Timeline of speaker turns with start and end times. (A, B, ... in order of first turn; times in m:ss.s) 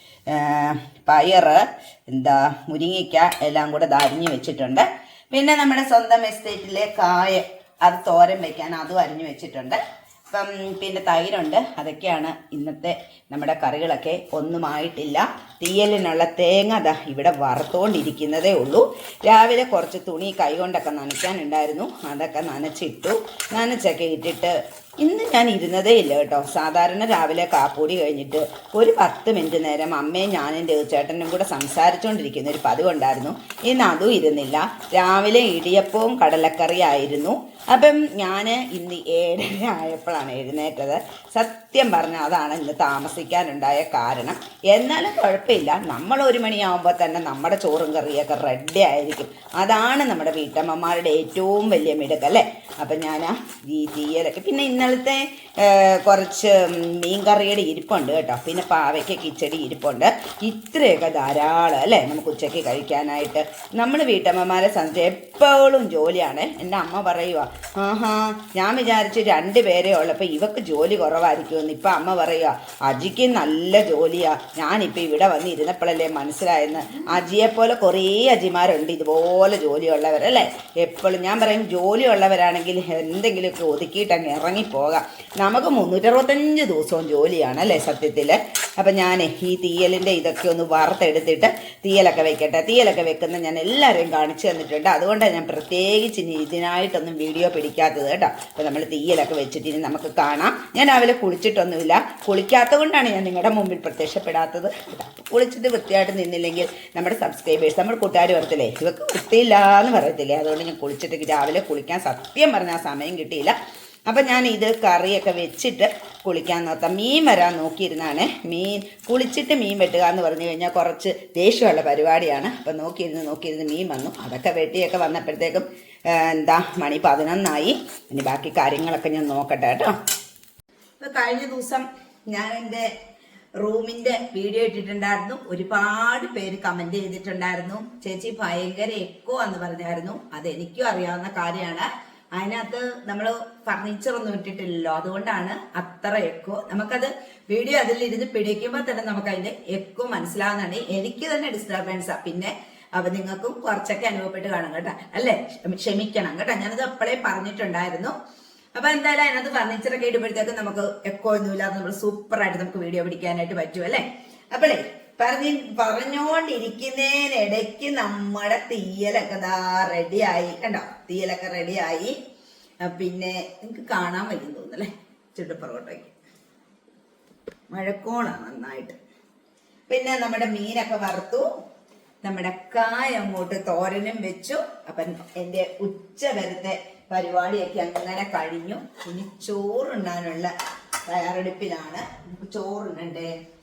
0:00.3-1:53.6 A
1:54.1-2:10.0 A
2:11.0-2:12.9 A
2:13.6-2:38.1 A
2:38.8-2:52.2 A
2:52.8-2:56.1 A
2:57.7-2:59.0 A
2:59.9-3:01.5 A
3:02.2-3:10.5 A
3:11.1-3:13.3 A